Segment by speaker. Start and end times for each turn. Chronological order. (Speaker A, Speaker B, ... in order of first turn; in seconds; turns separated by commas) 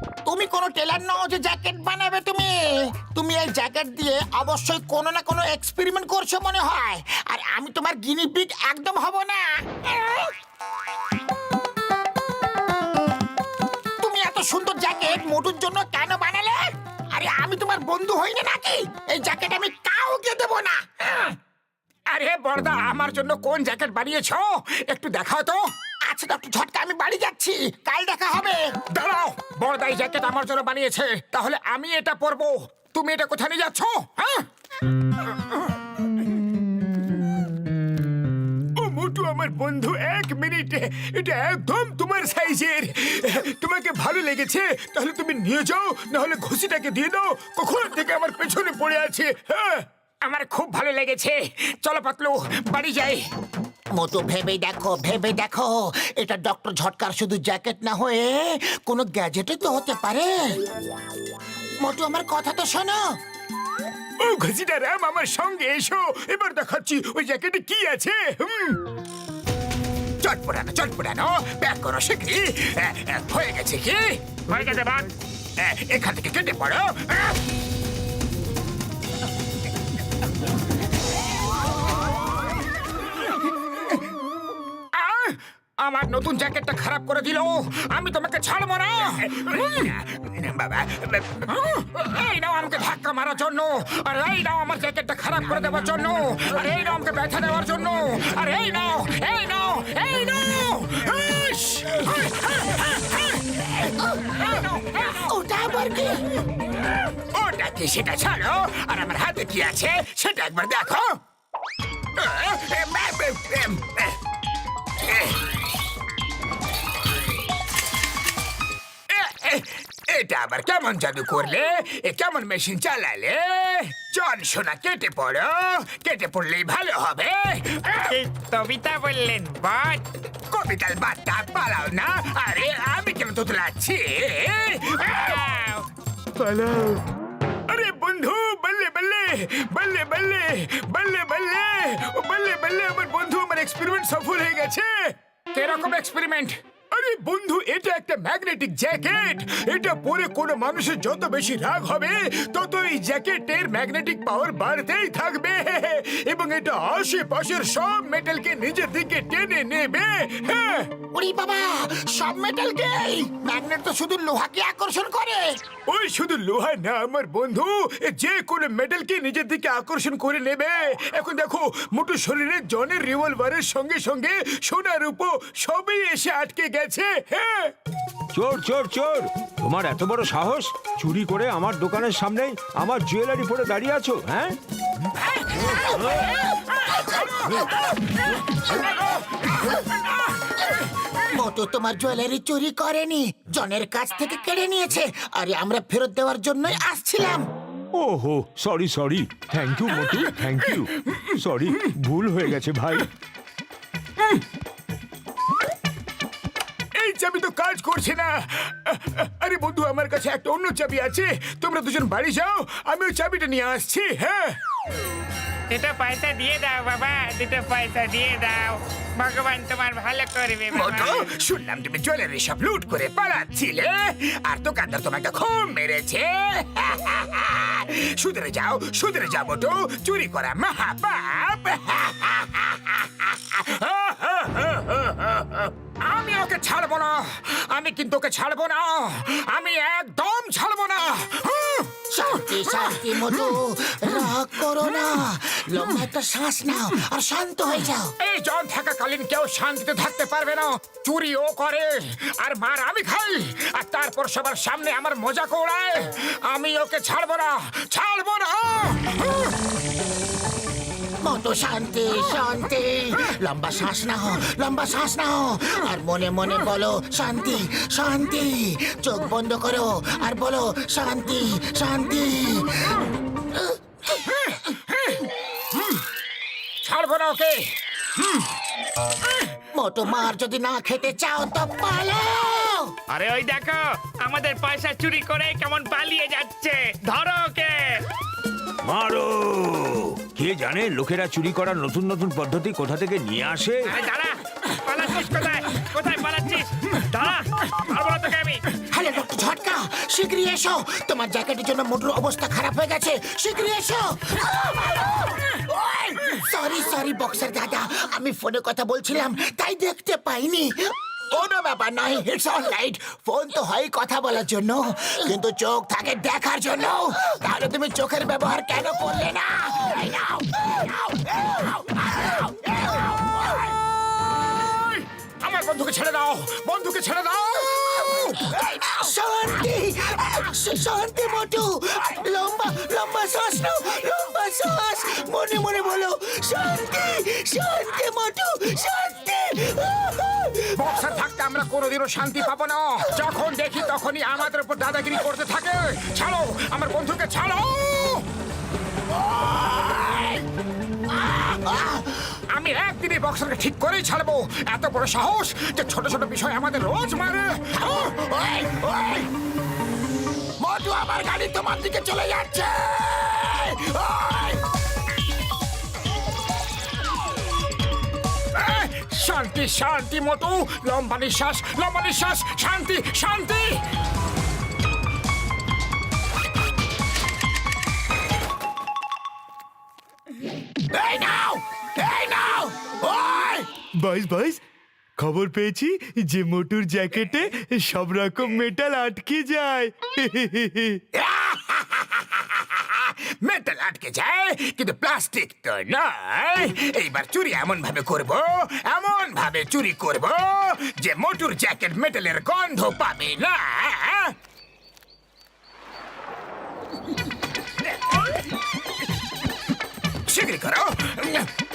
Speaker A: 0.3-10.3, Speaker A: 14.0-21.2, Speaker B: 22.1-25.6, Speaker A: 26.1-28.8, Speaker B: 28.8-34.5, Speaker B: 38.8-53.2, Speaker A: 54.0-60.6, Speaker A: 61.8-63.0, Speaker B: 64.2-68.8, Speaker B: 70.2-75.1, Speaker B: 75.6-77.4, Speaker B: 84.9-105.3, Speaker A: 105.1-106.2, Speaker B: 107.2-111.2, Speaker B: 112.2-114.1, Speaker B: 115.0-115.4, Speaker B: 119.1-128.2, Speaker C: 128.1-130.1, Speaker B: 130.5-135.4, Speaker C: 135.2-135.8, Speaker D: 136.4-137.0, Speaker B: 137.7-144.9, Speaker D: 137.9-138.3, Speaker B: 145.5-160.9, Speaker A: 161.1-165.5, Speaker B: 165.9-177.7, Speaker E: 178.3-184.6, Speaker B: 185.3-188.0, Speaker B: 188.7-189.2, Speaker A: 191.3-197.5, Speaker E: 197.9-203.1, Speaker B: 207.0-214.6, Speaker C: 215.7-221.3, Speaker B: 220.7-243.6, Speaker A: 242.1-248.1, Speaker B: 248.2-259.5, Speaker A: 261.2-273.0, Speaker A: 273.5-273.8, Speaker B: 274.2-276.0, Speaker B: 276.8-278.5, Speaker A: 279.7-282.9, Speaker C: 283.1-288.1, Speaker E: 288.8-293.9, Speaker C: 293.9-298.6, Speaker A: 298.9-323.6, Speaker B: 324.4-328.7, Speaker A: 328.5-340.7, Speaker B: 340.7-348.3, Speaker A: 349.2-350.3, Speaker A: 351.3-351.9, Speaker B: 351.9-358.3, Speaker A: 358.1-359.3, Speaker A: 360.6-364.6, Speaker B: 368.5-373.8, Speaker A: 380.9-383.7, Speaker D: 384.0-384.6, Speaker D: 385.2-391.0, Speaker B: 391.1-404.4, Speaker B: 410.3-411.5